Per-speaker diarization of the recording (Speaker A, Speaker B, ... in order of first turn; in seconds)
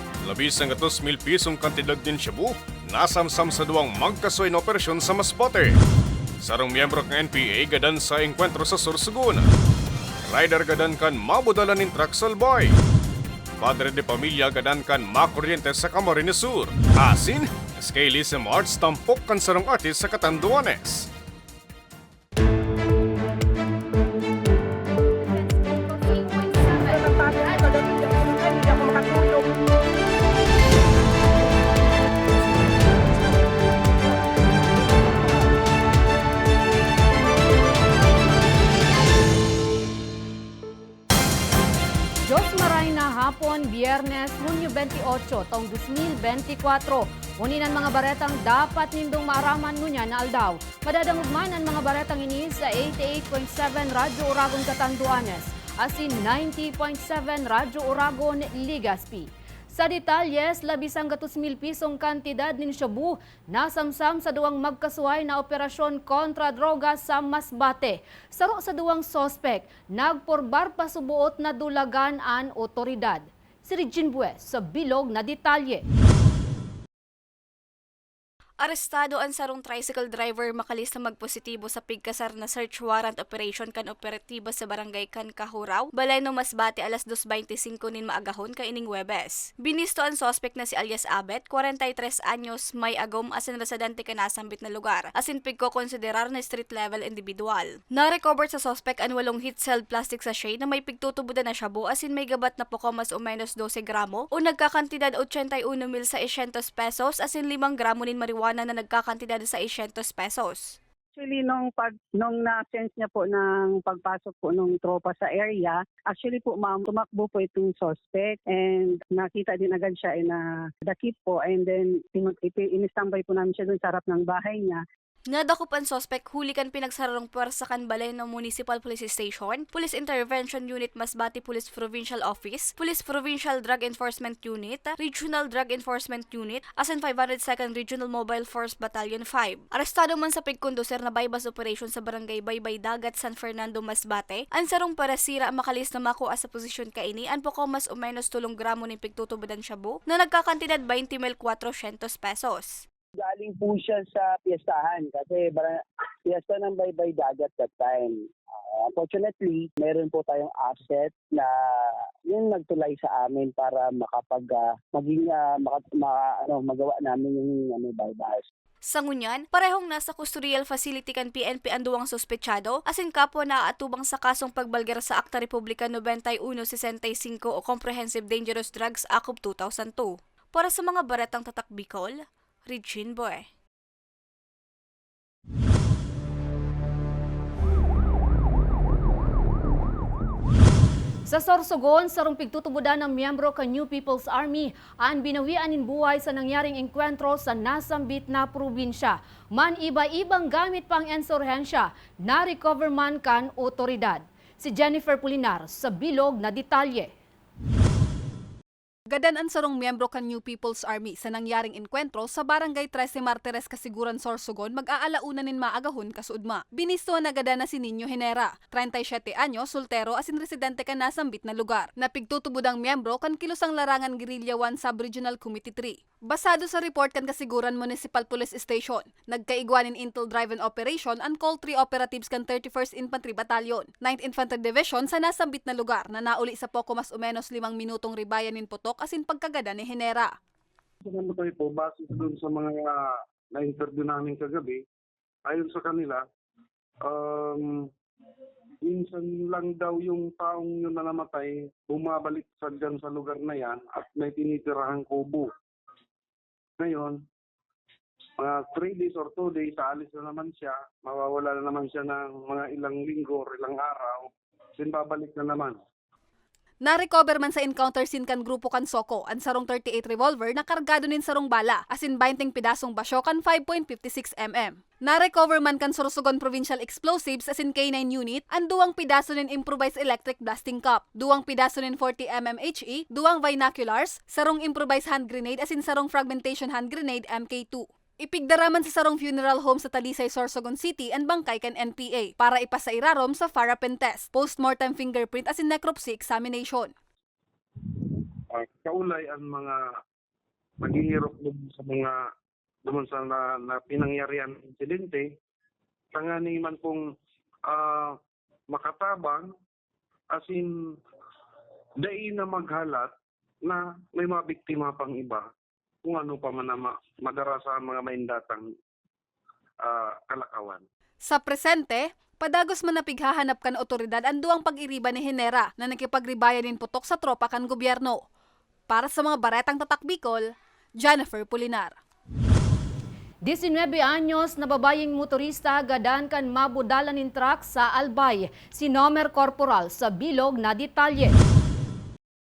Speaker A: 0.2-5.7, 6.4-9.5, 10.3-12.8, 13.6-21.1
Speaker B: 25.7-27.7, 209.1-240.3, 266.8-296.9, 321.2-328.2, 328.9-332.0
Speaker C: 42.2-75.8, 191.2-207.1, 333.4-341.3
Speaker D: 78.6-110.8, 125.3-152.8, 168.9-183.4
Speaker E: 111.1-124.8
Speaker F: 153.2-155.7, 156.3-158.1, 158.9-161.3, 162.3-168.3
Speaker G: 241.0-242.9, 243.5-244.8, 245.5-246.2, 247.1-247.8, 248.9-255.5, 256.8-257.2, 258.4-265.8, 298.5-299.8, 300.8-302.2, 302.8-305.3, 306.1-307.0, 307.7-308.2, 308.7-309.5, 310.3-310.7, 312.0-313.1, 313.6-315.5, 316.0-318.7, 319.8-320.8